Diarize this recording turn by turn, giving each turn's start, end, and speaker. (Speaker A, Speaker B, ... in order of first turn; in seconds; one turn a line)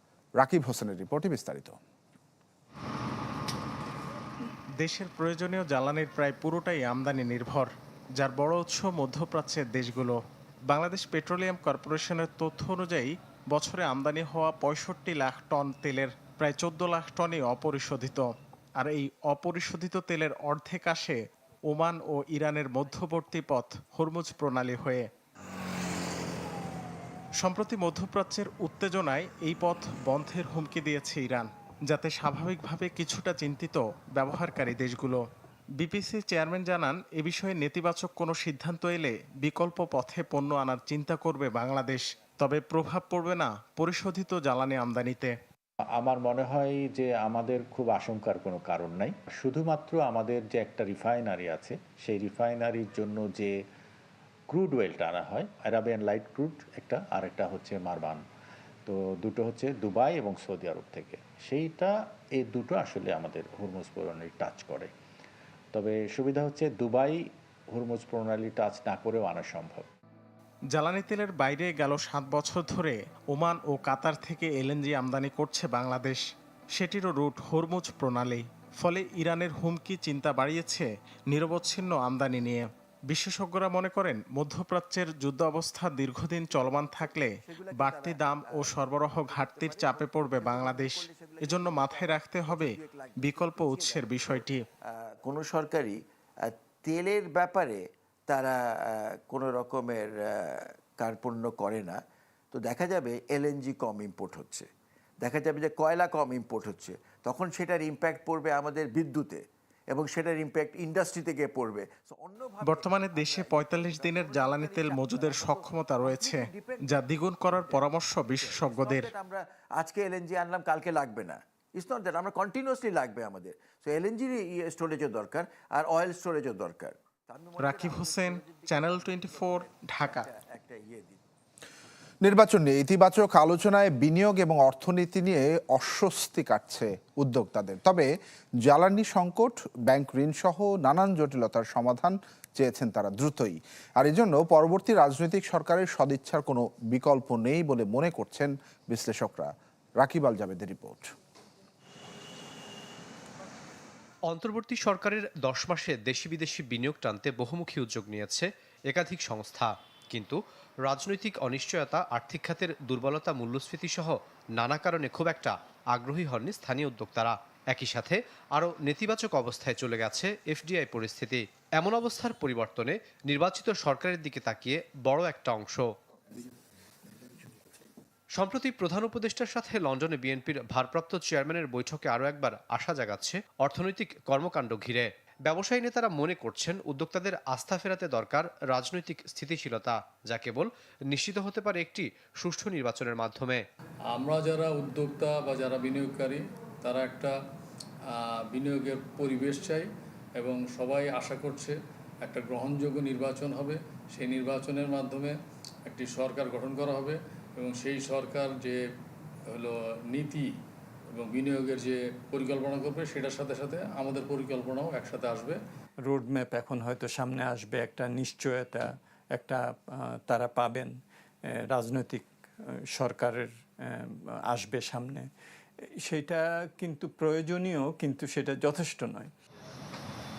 Speaker A: 0.4-1.8
Speaker B: 4.8-25.1
Speaker B: 27.4-35.2
Speaker B: 35.8-45.3
Speaker C: 45.9-53.6
Speaker C: 54.5-58.2
Speaker C: 58.9-64.9
Speaker C: 65.7-69.9
Speaker B: 70.7-94.6
Speaker D: 86.7-102.0
Speaker D: 102.5-104.7
Speaker D: 105.2-131.2
Speaker B: 112.6-119.1
Speaker B: 127.6-130.3
Speaker A: 132.2-138.1
Speaker A: 138.6-151.1
Speaker E: 154.2-175.9
Speaker E: 178.3-193.7
Speaker F: 194.1-197.3
Speaker F: 198.1-205.3
Speaker F: 205.9-208.8
Speaker F: 209.5-210.5
Speaker F: 211.1-215.6
Speaker G: 216.1-220.9
Speaker G: 221.5-225.3
Speaker G: 226.0-229.3